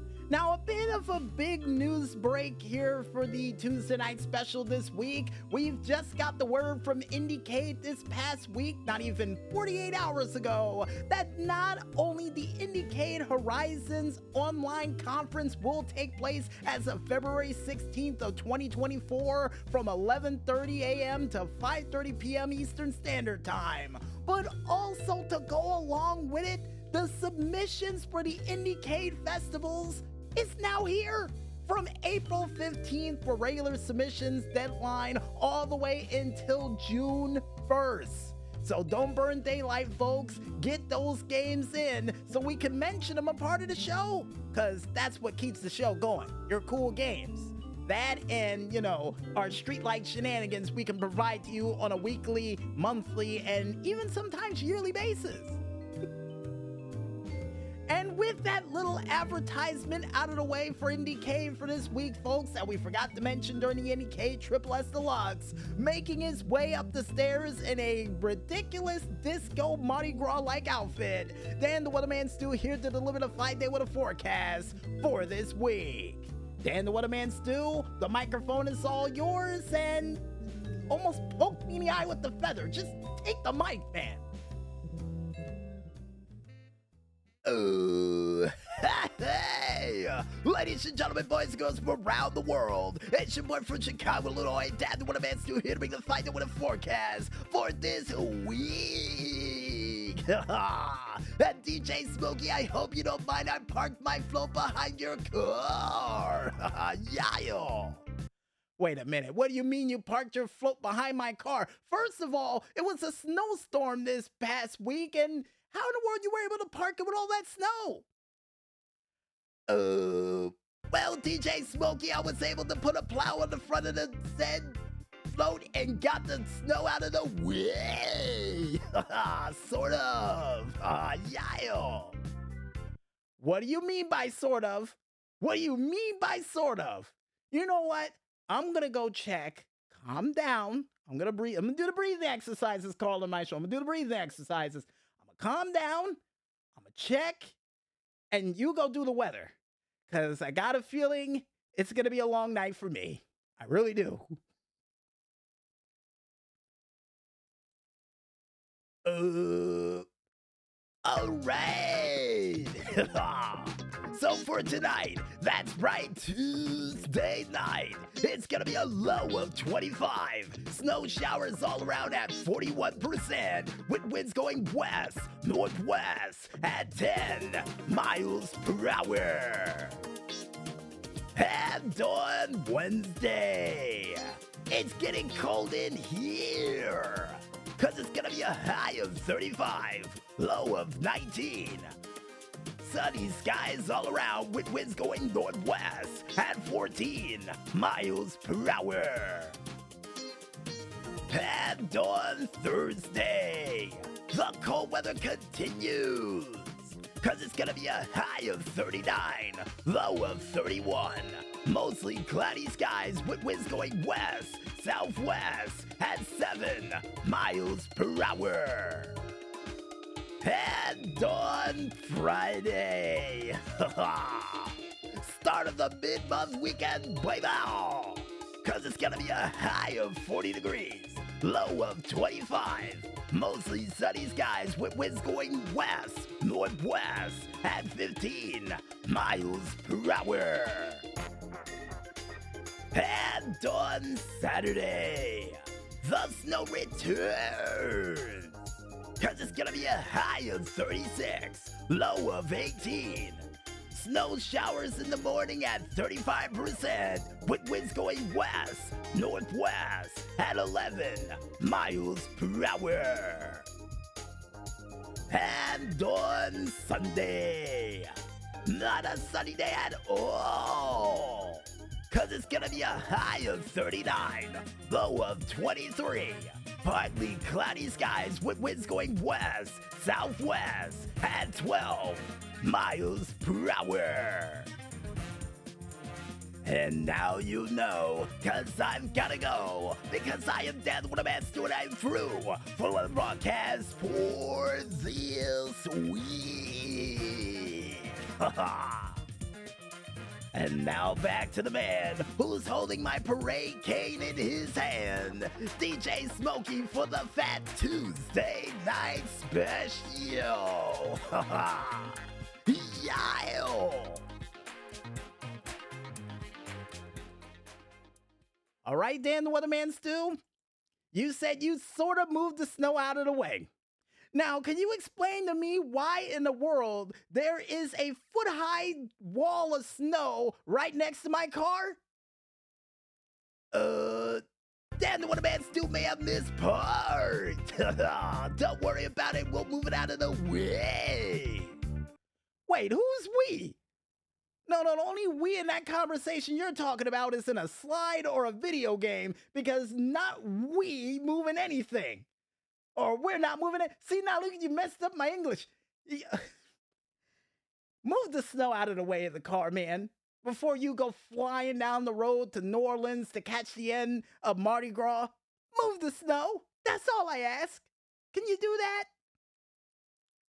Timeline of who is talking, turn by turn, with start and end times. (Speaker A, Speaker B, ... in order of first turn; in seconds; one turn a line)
Speaker A: 0.3-55.6
Speaker A: 57.9-80.3
Speaker A: 80.9-84.3
Speaker A: 87.4-108.0
Speaker A: 108.8-118.1
Speaker A: 119.7-132.2
Speaker A: 133.4-146.2
Speaker A: 146.7-147.6
Speaker A: 148.3-149.6
Speaker A: 150.1-154.4
Speaker A: 159.1-160.1
Speaker A: 161.1-180.0
Speaker A: 181.3-191.9
Speaker A: 192.8-199.6
Speaker A: 201.3-219.2
Speaker A: 220.4-241.1
Speaker A: 242.9-248.6
Speaker A: 249.2-263.7
Speaker A: 265.3-284.7
Speaker A: 286.6-299.2
Speaker A: 300.5-314.2
Speaker A: 318.9-320.4
Speaker A: 321.1-323.7
Speaker A: 324.3-332.0
Speaker A: 333.7-334.4
Speaker A: 335.0-341.8
Speaker A: 342.7-343.8
Speaker A: 344.7-352.3
Speaker A: 353.0-356.4
Speaker A: 358.0-369.1